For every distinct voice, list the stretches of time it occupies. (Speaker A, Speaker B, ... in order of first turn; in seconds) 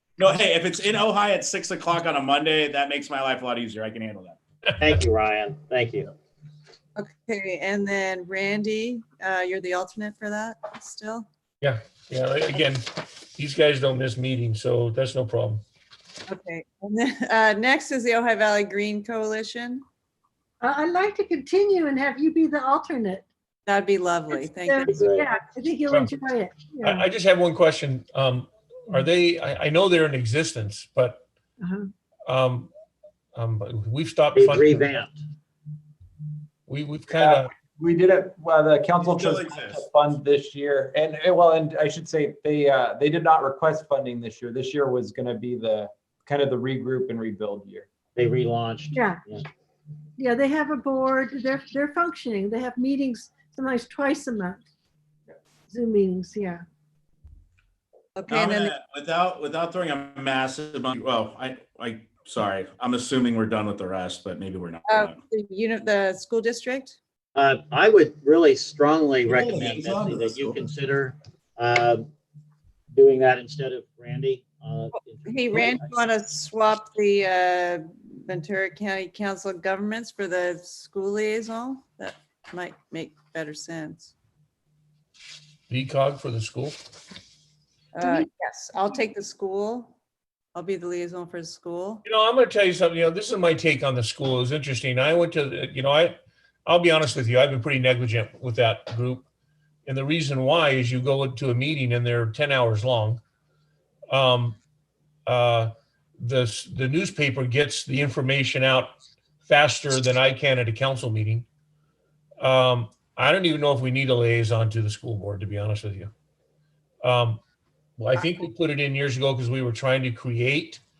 Speaker A: 0.2-4.4, 39.1-39.8, 58.3-65.2, 69.4-70.7
Speaker B: 4.8-6.1, 24.9-25.3, 34.3-35.2, 48.1-49.4, 67.3-72.1, 72.9-76.0
Speaker C: 7.0-11.3, 16.3-19.8, 23.7-25.3, 58.1-58.7, 64.8-67.0, 75.2-84.1, 87.9-89.9, 90.5-92.0
Speaker D: 11.6-15.6, 26.8-31.2, 32.3-32.7, 33.3-35.0, 36.7-37.5, 85.7-86.8, 92.0-96.1, 96.7-99.2, 99.8-103.2, 104.1-104.6, 105.2-108.9, 109.4-111.5, 112.4-116.1, 117.0-117.4, 118.0-120.8
Speaker E: 20.6-23.2, 24.3-27.0, 31.6-31.9, 48.9-49.2, 50.2-54.6, 55.7-56.6
Speaker F: 37.1-47.9